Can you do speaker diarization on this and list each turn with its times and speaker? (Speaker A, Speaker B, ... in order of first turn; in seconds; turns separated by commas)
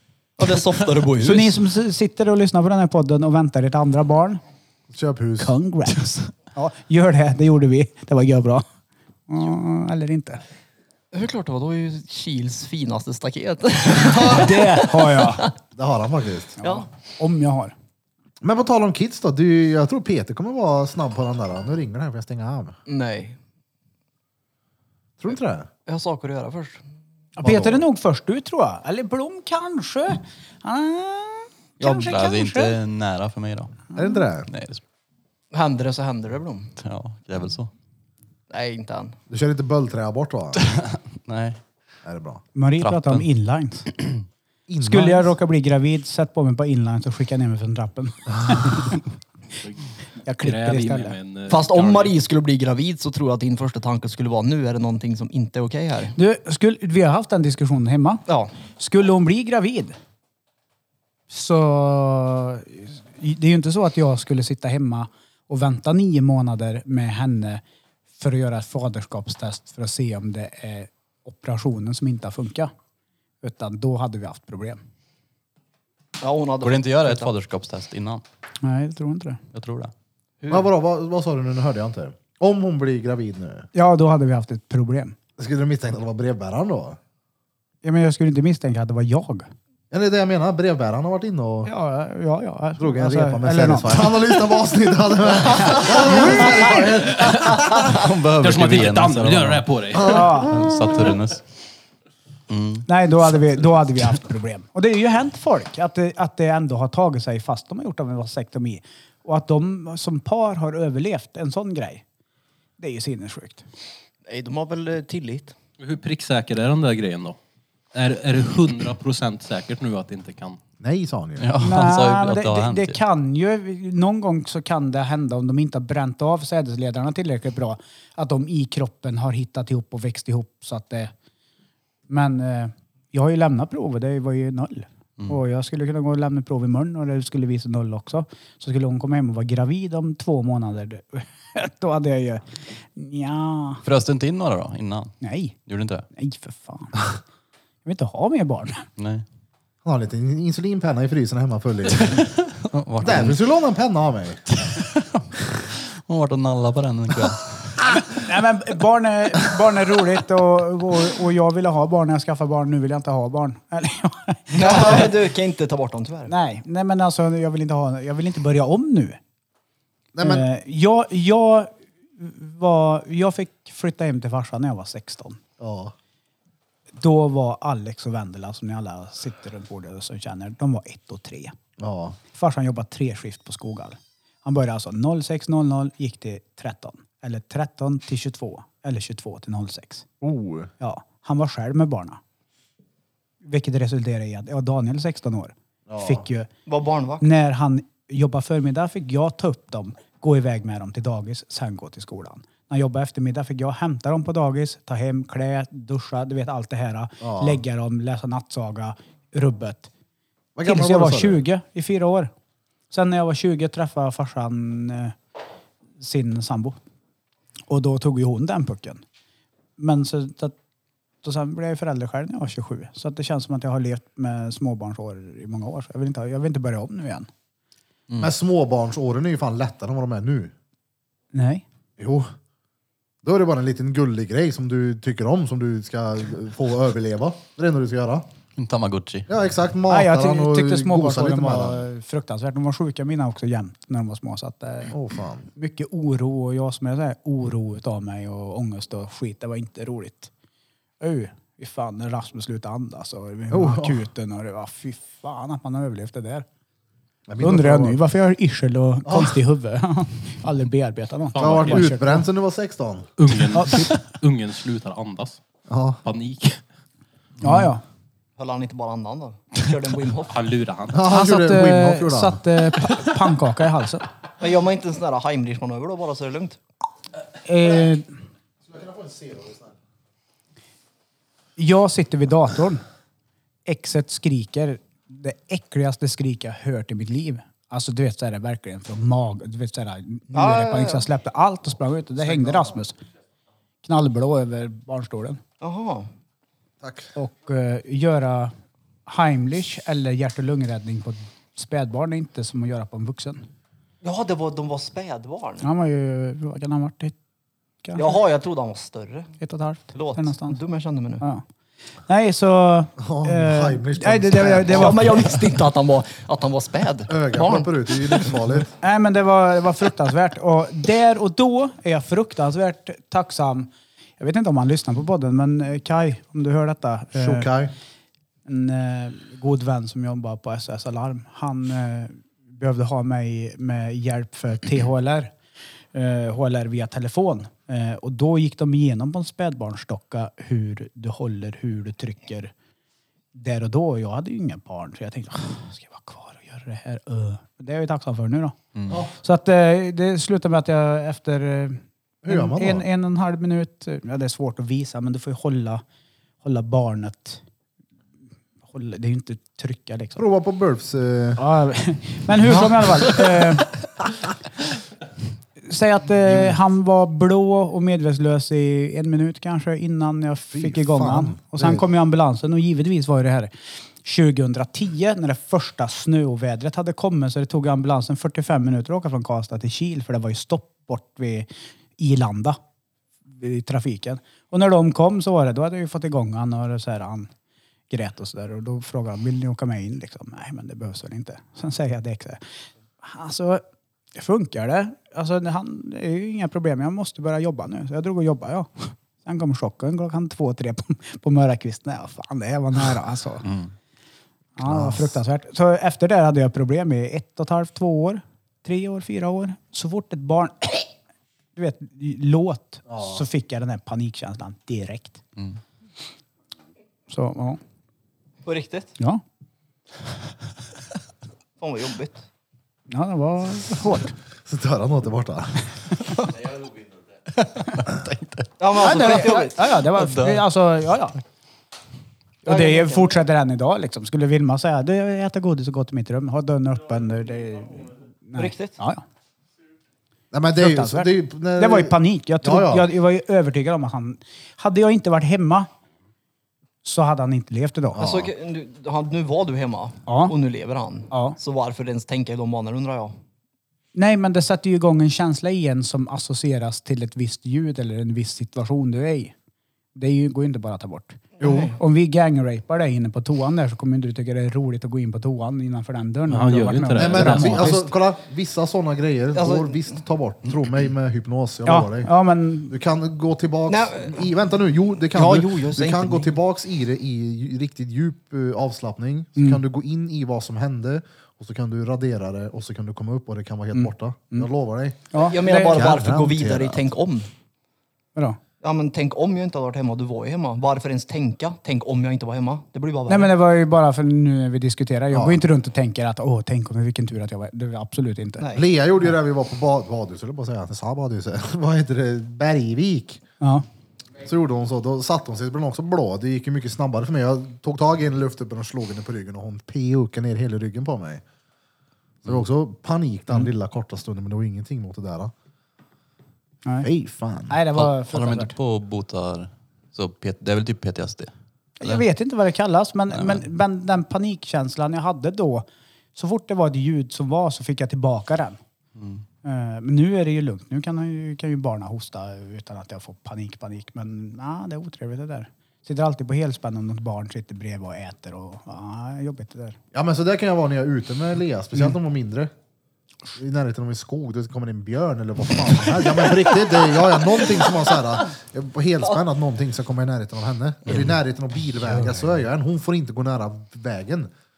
Speaker A: 0.4-1.6, Speaker B: 1.2-4.4, Speaker C: 4.9-5.5, Speaker B: 5.4-8.7, Speaker B: 9.3-10.4, Speaker A: 11.1-15.5, Speaker C: 14.0-14.3, Speaker B: 14.1-15.5, Speaker C: 15.8-16.6, Speaker A: 16.6-16.9, Speaker B: 16.6-17.7, Speaker C: 18.4-22.8, Speaker A: 22.9-23.4, Speaker C: 25.2-25.7, Speaker A: 25.9-26.8, Speaker B: 27.4-32.8, Speaker C: 27.4-27.9, Speaker D: 31.8-33.9, Speaker C: 34.0-34.5, Speaker D: 34.5-34.8, Speaker A: 35.5-36.7, Speaker D: 36.8-37.7, Speaker A: 38.5-39.2, Speaker C: 39.3-40.6, Speaker D: 40.6-41.6, Speaker C: 42.0-42.4, Speaker B: 42.5-44.0, Speaker D: 42.8-43.3, Speaker C: 44.7-45.3, Speaker B: 44.8-49.0, Speaker E: 49.6-52.2, Speaker B: 50.3-51.2, Speaker A: 51.5-56.2, Speaker B: 56.2-58.2, Speaker A: 58.3-58.5, Speaker B: 58.8-60.0, Speaker B: 61.3-67.6, Speaker B: 68.2-72.7, Speaker B: 73.4-74.8, Speaker A: 76.2-77.3, Speaker D: 76.6-78.2, Speaker B: 78.6-79.4, Speaker D: 79.5-79.9, Speaker A: 80.4-80.7, Speaker C: 80.5-83.7, Speaker B: 83.7-85.2, Speaker C: 85.4-87.0, Speaker B: 87.8-89.5, Speaker C: 89.9-91.7, Speaker B: 91.7-94.1, Speaker C: 92.8-97.8, Speaker B: 95.6-96.8, Speaker E: 97.2-97.6, Speaker D: 97.8-101.4, Speaker E: 98.4-100.4, Speaker C: 99.9-100.7, Speaker B: 100.0-100.7, Speaker D: 102.5-102.9, Speaker B: 102.9-112.0, Speaker B: 112.8-113.6, Speaker A: 114.3-115.6, Speaker E: 115.8-117.4, Speaker E: 117.9-120.6, Speaker C: 120.8-121.5, Speaker D: 121.4-123.0, Speaker B: 121.6-131.1, Speaker B: 132.1-143.8, Speaker D: 143.8-145.2, Speaker B: 145.2-145.6, Speaker D: 145.7-146.1, Speaker B: 146.1-147.2, Speaker B: 147.8-148.9, Speaker D: 149.0-149.2, Speaker C: 149.8-152.3, Speaker D: 151.9-153.4, Speaker C: 153.0-154.5, Speaker D: 154.5-158.0, Speaker B: 158.1-165.1, Speaker A: 164.5-166.3, Speaker B: 166.3-169.2, Speaker C: 170.1-170.4, Speaker B: 170.2-175.4, Speaker C: 175.6-175.9, Speaker B: 177.0-181.6, Speaker C: 181.8-182.2, Speaker B: 182.3-190.1, Speaker C: 190.2-190.7, Speaker B: 190.8-192.2, Speaker B: 193.4-196.5, Speaker C: 195.9-196.2, Speaker A: 196.7-197.3, Speaker B: 197.2-209.9, Speaker C: 207.2-207.6, Speaker C: 210.6-211.4, Speaker B: 210.6-212.3, Speaker B: 212.9-215.2, Speaker B: 216.0-216.8, Speaker B: 217.7-219.0, Speaker B: 219.8-220.6, Speaker B: 221.2-227.3, Speaker C: 228.2-230.5, Speaker B: 231.3-231.6, Speaker C: 232.0-232.3, Speaker C: 233.2-238.3, Speaker D: 238.6-239.3, Speaker C: 239.3-241.8, Speaker B: 239.9-244.9, Speaker C: 244.9-245.5, Speaker B: 245.6-250.3, Speaker B: 251.0-256.5, Speaker C: 253.5-254.1, Speaker C: 257.3-258.0, Speaker B: 257.4-262.3, Speaker C: 259.1-259.4, Speaker E: 261.3-262.0, Speaker C: 261.4-263.1, Speaker E: 263.2-265.4, Speaker B: 263.5-263.9, Speaker C: 265.7-266.0, Speaker E: 266.0-266.6, Speaker B: 267.4-267.8, Speaker A: 268.4-270.4, Speaker E: 270.3-271.0, Speaker C: 270.9-272.4, Speaker B: 271.1-274.1, Speaker A: 274.4-276.6, Speaker B: 277.4-278.1, Speaker C: 278.7-279.7, Speaker B: 281.6-282.8, Speaker B: 283.7-293.0, Speaker A: 290.3-291.1, Speaker C: 292.3-292.7, Speaker B: 293.8-295.4, Speaker A: 295.6-296.1, Speaker C: 296.8-297.1, Speaker B: 297.2-298.5, Speaker B: 299.1-303.5, Speaker A: 304.0-305.6, Speaker B: 305.6-307.1, Speaker B: 307.8-308.2, Speaker A: 308.0-309.4, Speaker B: 309.4-310.6, Speaker A: 309.9-311.3, Speaker B: 312.1-315.4, Speaker C: 313.0-315.1, Speaker A: 314.6-318.4, Speaker C: 317.1-318.7, Speaker B: 318.8-327.5, Speaker C: 327.1-327.7, Speaker B: 328.5-335.3, Speaker B: 335.9-342.5, Speaker B: 343.3-348.6, Speaker C: 348.9-349.1, Speaker B: 349.2-355.8, Speaker C: 352.2-352.9, Speaker B: 356.4-357.4, Speaker B: 358.7-360.2, Speaker C: 360.2-361.4, Speaker B: 361.4-363.9, Speaker B: 365.7-373.5, Speaker C: 370.5-371.9, Speaker B: 374.0-382.6, Speaker B: 383.3-387.3, Speaker B: 387.9-392.4, Speaker B: 393.0-393.6, Speaker B: 394.1-403.5, Speaker D: 403.4-403.7, Speaker B: 404.6-410.9, Speaker C: 404.6-405.2, Speaker B: 411.6-415.2, Speaker C: 412.9-413.2, Speaker B: 417.1-417.6, Speaker A: 418.4-419.0, Speaker A: 421.6-422.2, Speaker B: 422.9-424.1, Speaker C: 424.4-425.6, Speaker D: 427.3-428.5, Speaker A: 428.6-429.8, Speaker B: 428.8-431.2, Speaker D: 429.9-430.5, Speaker A: 432.4-433.2, Speaker B: 432.4-439.0, Speaker A: 438.4-438.8, Speaker C: 440.3-442.9, Speaker B: 440.6-445.7, Speaker B: 446.8-448.1, Speaker C: 447.9-448.3, Speaker A: 448.0-453.1, Speaker B: 450.1-450.3, Speaker B: 451.1-451.4, Speaker B: 453.9-459.3, Speaker B: 459.9-467.9, Speaker A: 461.4-461.8, Speaker C: 461.4-461.7, Speaker E: 466.3-467.8, Speaker C: 467.0-472.1, Speaker A: 469.3-470.0, Speaker B: 471.7-472.8, Speaker C: 472.7-486.8, Speaker A: 473.7-474.2, Speaker A: 475.1-476.4, Speaker B: 483.7-484.5, Speaker B: 485.1-485.9, Speaker A: 485.2-487.3, Speaker A: 488.6-493.3, Speaker B: 493.1-498.5, Speaker C: 495.1-495.4, Speaker A: 498.4-498.7, Speaker C: 498.5-503.2, Speaker B: 503.4-503.7, Speaker C: 504.2-511.2, Speaker C: 512.2-515.3, Speaker C: 516.8-517.6, Speaker B: 517.5-518.5, Speaker D: 517.7-522.0, Speaker B: 521.8-528.6, Speaker D: 523.1-523.5, Speaker D: 529.0-529.2, Speaker B: 529.4-539.8, Speaker C: 539.9-542.5, Speaker C: 543.4-554.3, Speaker D: 550.9-551.2